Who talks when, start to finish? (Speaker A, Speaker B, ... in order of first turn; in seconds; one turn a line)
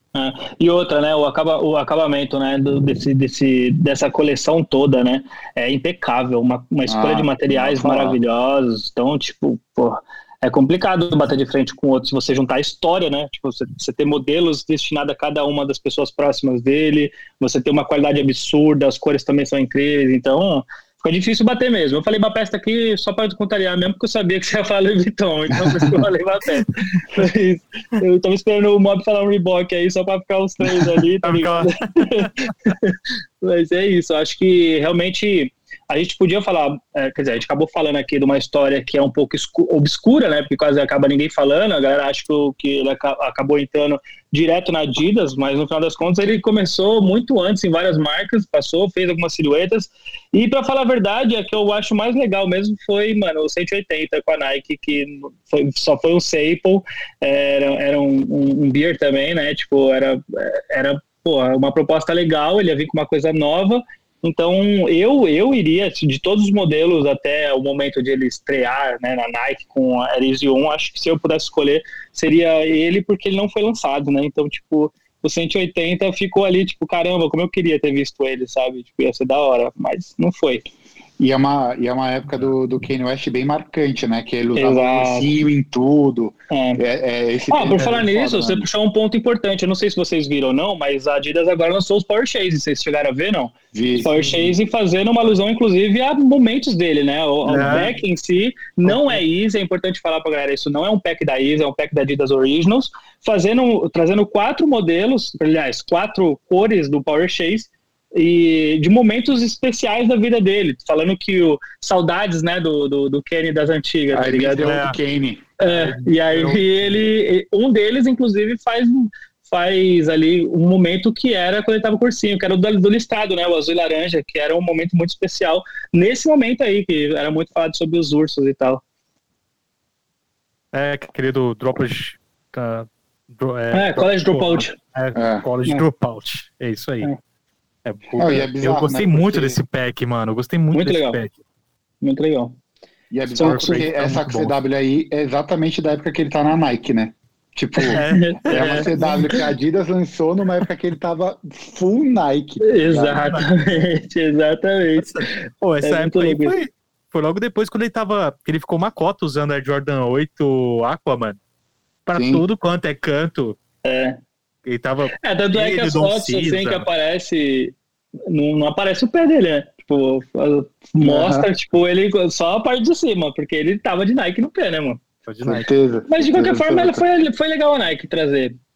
Speaker A: 0.1-80.7
Speaker B: 6.9-8.2
Speaker C: 31.0-32.5
Speaker B: 81.2-88.7
Speaker A: 84.5-85.3
Speaker A: 86.5-86.8
Speaker A: 87.5-114.7
Speaker B: 93.7-94.1
Speaker C: 94.0-94.5
Speaker C: 97.4-98.0
Speaker B: 114.1-115.4
Speaker C: 114.6-115.0
Speaker A: 115.6-128.8
Speaker C: 115.7-117.0
Speaker C: 130.7-137.1
Speaker A: 133.7-134.8
Speaker B: 135.1-135.8
Speaker C: 137.8-141.3
Speaker B: 138.2-139.6
Speaker A: 140.7-141.2
Speaker A: 142.0-142.6
Speaker B: 143.1-153.2
Speaker C: 143.3-144.6
Speaker A: 143.4-143.8
Speaker A: 147.8-149.4
Speaker C: 147.9-149.4
Speaker A: 152.6-156.5
Speaker C: 155.0-161.4
Speaker C: 162.1-163.6
Speaker B: 162.1-162.4
Speaker A: 163.8-164.2
Speaker C: 164.6-166.9
Speaker A: 165.2-167.8
Speaker A: 168.3-175.0
Speaker B: 171.0-171.5
Speaker C: 175.2-175.7
Speaker B: 175.4-177.0
Speaker A: 176.1-178.6